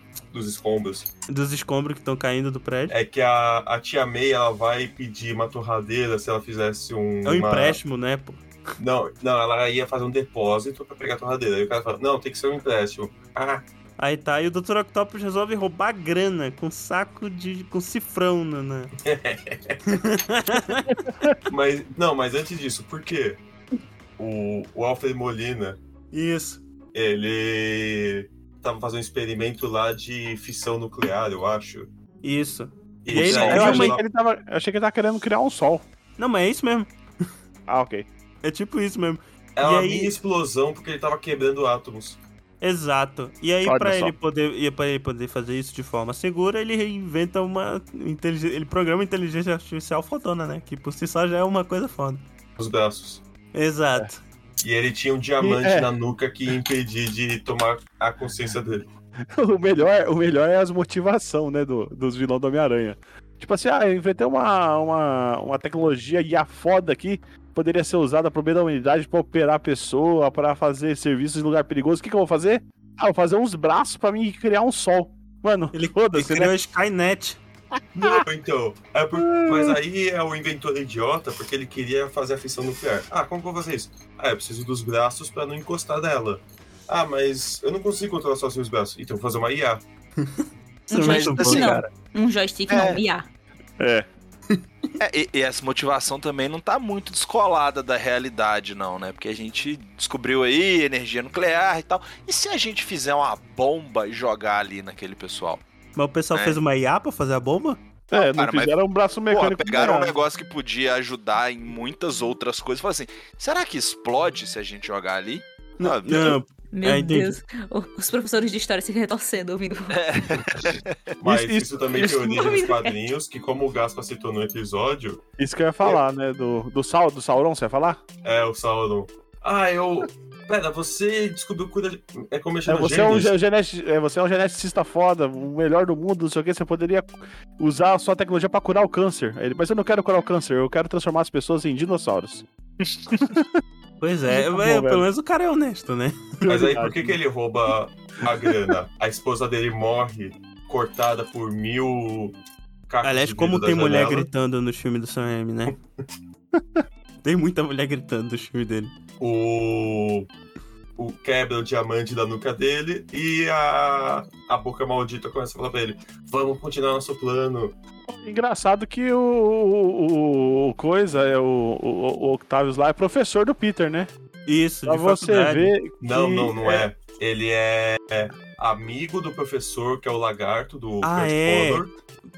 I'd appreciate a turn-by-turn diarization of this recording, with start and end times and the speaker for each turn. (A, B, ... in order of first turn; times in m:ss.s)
0:00.3-0:01.1 A
0:01.3-0:03.0 B
0:02.9-0:07.8 A
0:07.2-0:08.4 B
0:08.8-0:13.6 A
0:14.0-0:18.9 B
0:19.0-0:19.8 A
0:19.9-0:21.0 B
0:21.0-0:21.4 C
0:21.5-0:23.4 A
0:24.2-0:25.8 A
0:26.1-0:26.6 B
0:26.9-0:31.9 A
0:32.2-0:34.0 B
0:33.0-0:34.0 A
0:33.1-0:35.9 C
0:36.2-0:36.9 B
0:37.7-0:38.0 C
0:38.4-0:40.2 B
0:39.6-0:42.2 A
0:42.6-0:52.2 B
0:43.6-0:44.1 C
0:52.6-0:53.2 A
0:53.5-0:54.2 B
0:54.6-0:58.9 A
0:55.4-0:55.9 C
0:59.3-1:16.5 C
1:15.7-1:17.4 B
1:18.0-1:29.8 A
1:19.2-1:19.8 C
1:30.2-1:31.8 B
1:30.9-1:33.3 D
1:31.0-1:31.8 E
1:32.7-1:33.0 E
1:33.8-1:34.1 C
1:35.0-1:45.6 E
1:46.0-1:47.8 B
1:46.3-1:46.6 E
1:48.1-1:50.1 C
1:48.1-1:48.8 E
1:49.3-1:56.4 E
1:55.8-1:57.4 B
1:56.7-2:00.0 D
1:59.9-2:00.9 E
2:01.2-2:05.2 A
2:01.2-2:01.7 C
2:01.9-2:02.9 D
2:05.4-2:08.0 C
2:08.2-2:13.3 A
2:12.7-2:22.4 C
2:23.1-2:23.5 C
2:24.0-2:26.6 B
2:24.3-2:25.1 C
2:26.5-2:27.2 C
2:26.5-2:32.4 A
2:32.9-2:34.3 A
2:33.0-2:35.7 B
2:37.2-2:38.9 B
2:39.2-2:40.3 A
2:41.0-2:47.7 A
2:48.1-2:54.1 C
2:54.4-2:55.8 B
2:54.8-2:56.9 C
2:56.0-3:01.9 A
3:01.0-3:01.9 B